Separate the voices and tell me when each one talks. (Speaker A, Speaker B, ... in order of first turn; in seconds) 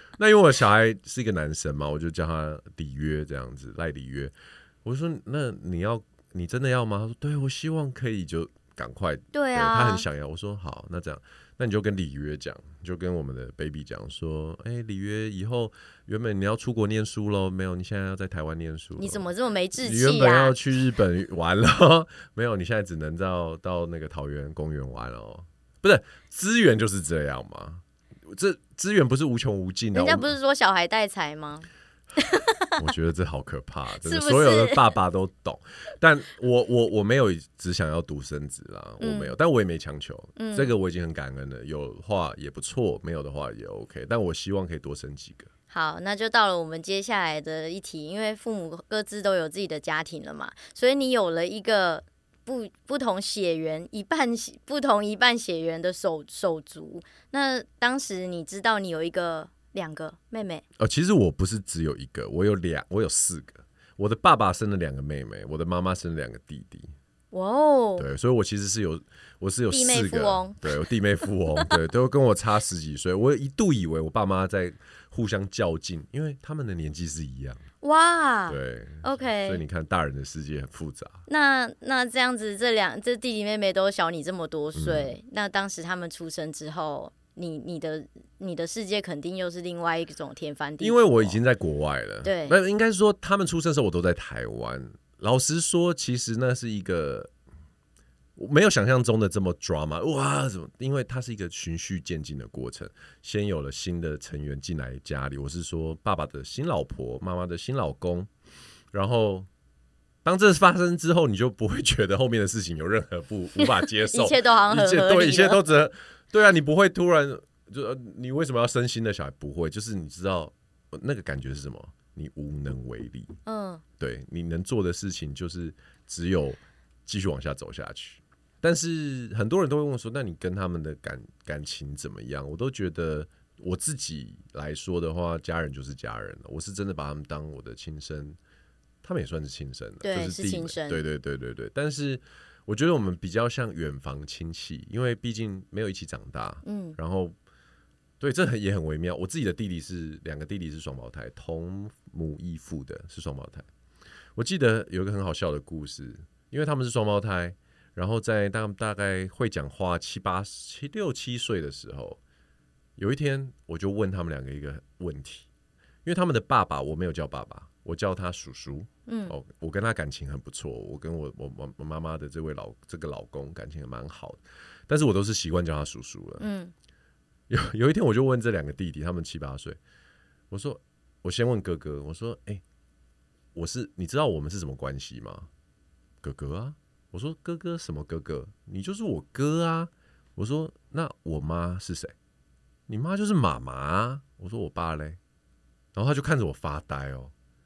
Speaker A: 0.2-30.3, 32.8-45.5, 60.8-66.9, 68.0-77.6, 78.5-81.2, 84.8-85.1, 90.8-97.3, 98.4-108.3, 108.9-109.5, 110.2-123.4, 124.0-138.4, 139.0-147.4, 148.2-153.7, 154.4-162.2, 163.0-165.5, 166.1-176.5, 177.5-179.8, 180.5-182.6, 183.5-185.5, 186.2-192.1, 192.9-195.2, 195.9-197.3
Speaker B: 9.3-10.1, 19.0-20.6, 29.9-32.8, 34.0-34.8, 39.0-39.3, 40.4-40.7, 45.7-60.6, 67.3-68.1, 69.7-71.7, 77.8-79.6, 81.3-91.4, 92.2-92.6, 113.6-115.7, 123.5-123.8, 140.0-141.0, 146.7-147.0, 169.1-169.3, 176.4-176.7